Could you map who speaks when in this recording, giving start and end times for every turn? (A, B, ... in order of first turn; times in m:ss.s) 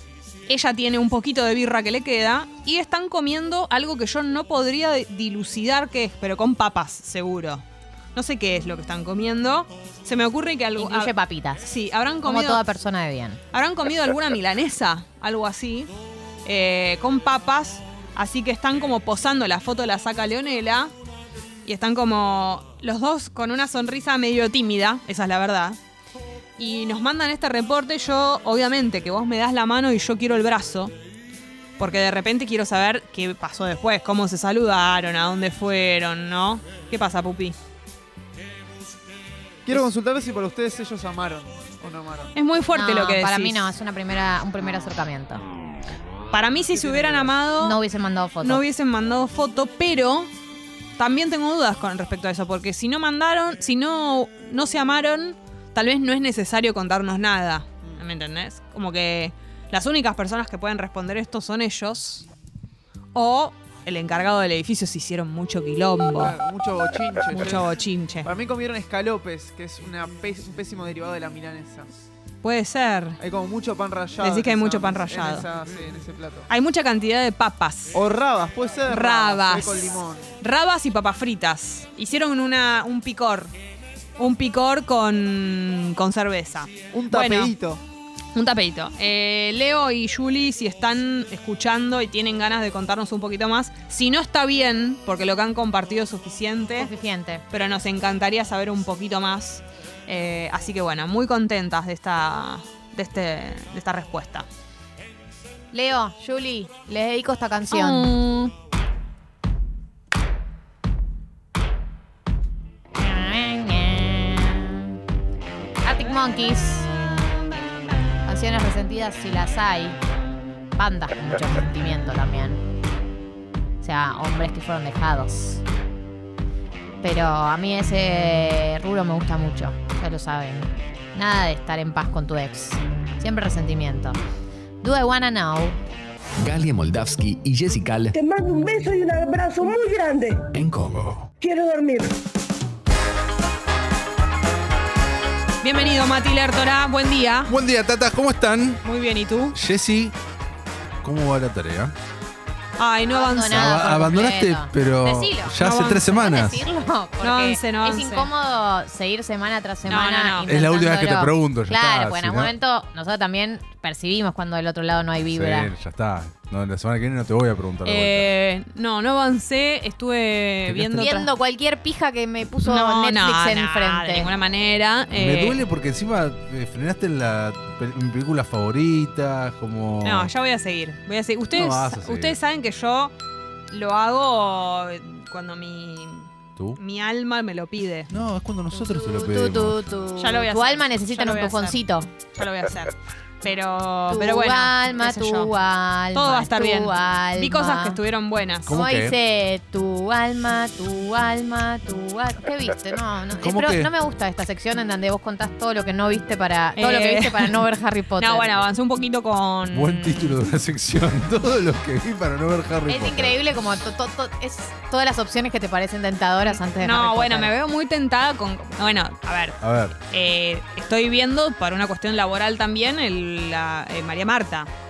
0:00.5-0:12.6 A
0:10.8-0:11.7 B
0:12.2-0:13.4 B
0:13.5-0:15.9 A
0:16.4-0:20.9 A
0:21.6-0:25.8 A
0:26.6-0:30.9 A
0:31.8-0:37.6 A
0:39.6-0:42.3 C
0:42.3-0:43.6 A
0:42.7-0:45.4 B
0:46.3-0:47.8 A
0:46.7-0:47.3 C
0:47.6-0:48.6 B
0:48.4-0:50.3 A
0:51.0-1:02.2 A
1:03.1-1:06.4 A
1:06.1-1:11.9 C
1:07.3-1:08.3 A
1:12.4-1:13.2 A
1:13.2-1:16.5 C
1:14.2-1:15.5 A
1:16.5-1:18.0 A
1:17.9-1:20.3 C
1:18.9-1:23.5 A
1:24.2-1:27.5 A
1:26.9-1:27.8 C
1:28.3-1:36.9 A
1:36.8-1:37.4 B
1:37.5-1:44.4 A
1:45.7-1:48.1 B
1:47.7-1:48.5 A
1:53.0-1:54.9 B
1:55.8-1:56.9 B
1:58.2-2:00.0 B
2:00.8-2:02.6 B
2:03.8-2:05.6 B
2:07.0-2:14.2 B
2:14.8-2:15.8 B
2:16.4-2:18.1 D
2:18.1-2:20.5 E
2:20.5-2:21.3 D
2:21.4-2:22.1 E
2:25.6-2:27.5 A
2:27.5-2:28.8 F
2:28.8-2:29.6 A
2:29.5-2:30.1 F
2:31.0-2:31.9 F
2:32.8-2:33.9 A
2:33.1-2:45.7 B
2:33.4-2:36.6 F
2:35.6-2:36.1 A
2:37.2-2:38.3 A
2:39.8-2:40.5 A
2:40.5-2:42.5 F
2:45.3-2:48.3 F
2:47.8-2:51.3 A
2:50.7-2:51.0 F
2:51.0-2:54.3 B
2:52.6-2:55.6 A
2:55.1-3:00.3 F
3:00.0-3:03.1 A
3:01.5-3:02.4 F
3:03.7-3:08.1 A
3:08.1-3:09.8 F
3:08.7-3:12.1 B
3:10.2-3:11.8 A
3:12.3-3:15.5 A
3:14.1-3:18.0 B
3:16.1-3:18.7 A
3:18.7-3:19.2 F
3:18.7-3:28.5 B
3:23.4-3:23.9 F
3:26.8-3:27.6 A
3:28.2-3:30.4 A
3:29.7-3:33.4 F
3:32.9-3:37.5 B
3:36.4-3:44.7 A
3:39.6-3:40.0 F